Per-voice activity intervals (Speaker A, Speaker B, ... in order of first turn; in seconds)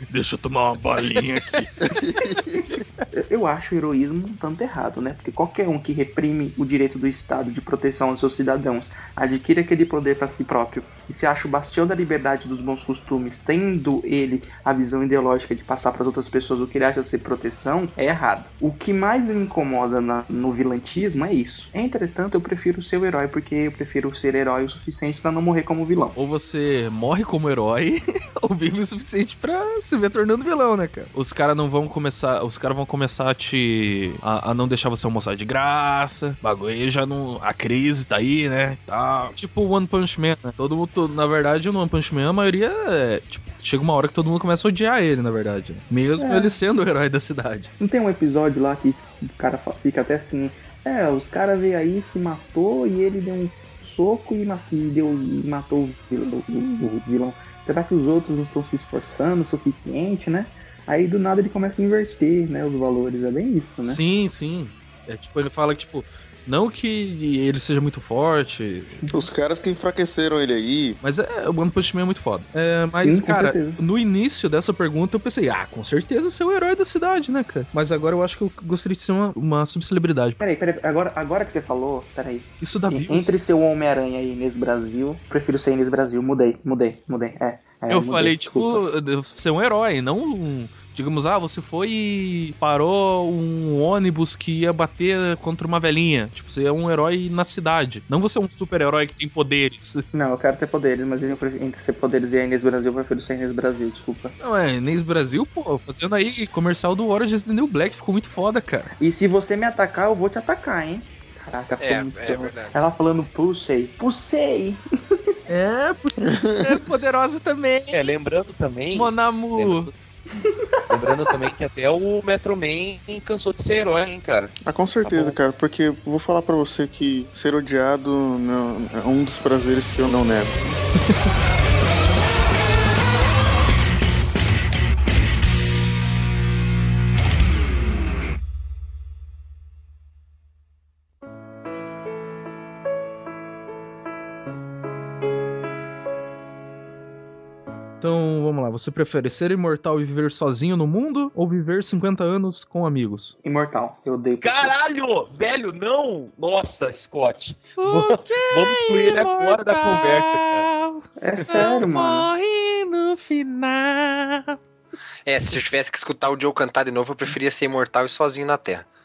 Speaker A: 0.1-1.7, 26.1-47.7, 63.8-69.0, 71.0-80.4, 82.6-83.3, 87.9-100.0, 104.4-108.9, 115.5-118.1, 118.9-119.9, 148.0-153.3, 157.8-164.6
Speaker B: 1.8-2.8, 69.1-71.0, 116.2-116.8, 124.6-130.6
Speaker C: 3.1-26.1, 46.2-46.5, 47.8-64.0, 72.9-73.8, 80.4-88.8, 100.1-104.3, 109.0-114.8, 153.4-154.7, 161.2-162.3
Speaker D: 111.8-112.7, 165.2-168.8
Speaker E: 117.9-119.9, 120.9-125.3, 154.4-160.7